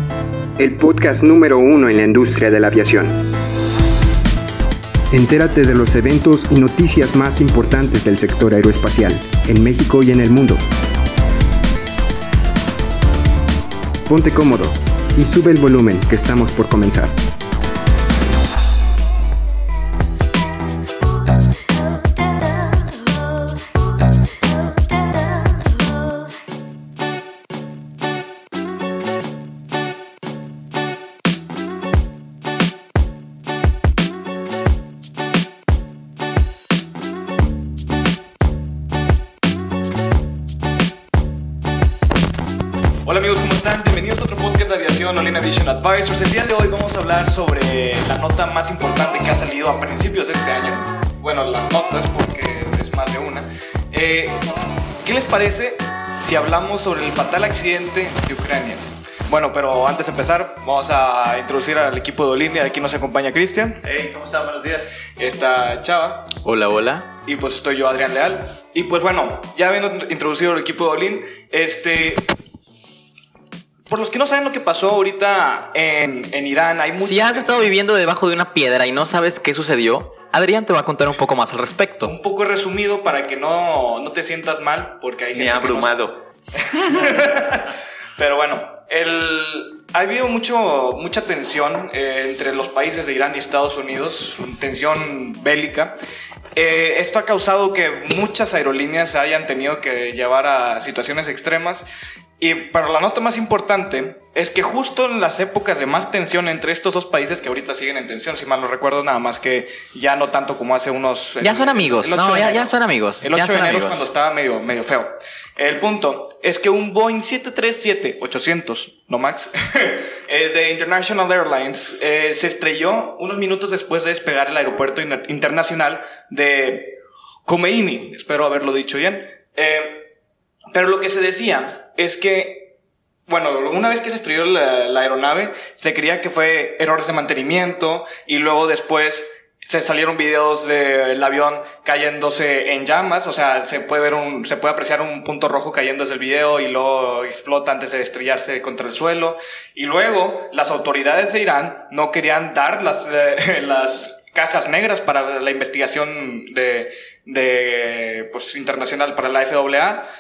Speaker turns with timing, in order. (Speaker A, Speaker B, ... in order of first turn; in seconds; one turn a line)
Speaker A: 0.6-3.1
Speaker A: 5.1-10.6
Speaker A: 14.1-17.1
Speaker B: 43.0-54.5
Speaker B: 55.0-63.8
Speaker C: 63.8-65.0
Speaker B: 65.2-66.3
Speaker D: 66.4-67.1
Speaker B: 67.2-72.2
Speaker B: 73.9-77.6
Speaker D: 77.0-82.1
Speaker B: 82.0-85.9
Speaker C: 85.3-86.2
Speaker B: 86.7-95.9
Speaker B: 96.5-101.9
Speaker B: 102.4-130.1
Speaker D: 111.4-114.0
Speaker B: 130.7-132.7
Speaker B: 133.3-160.0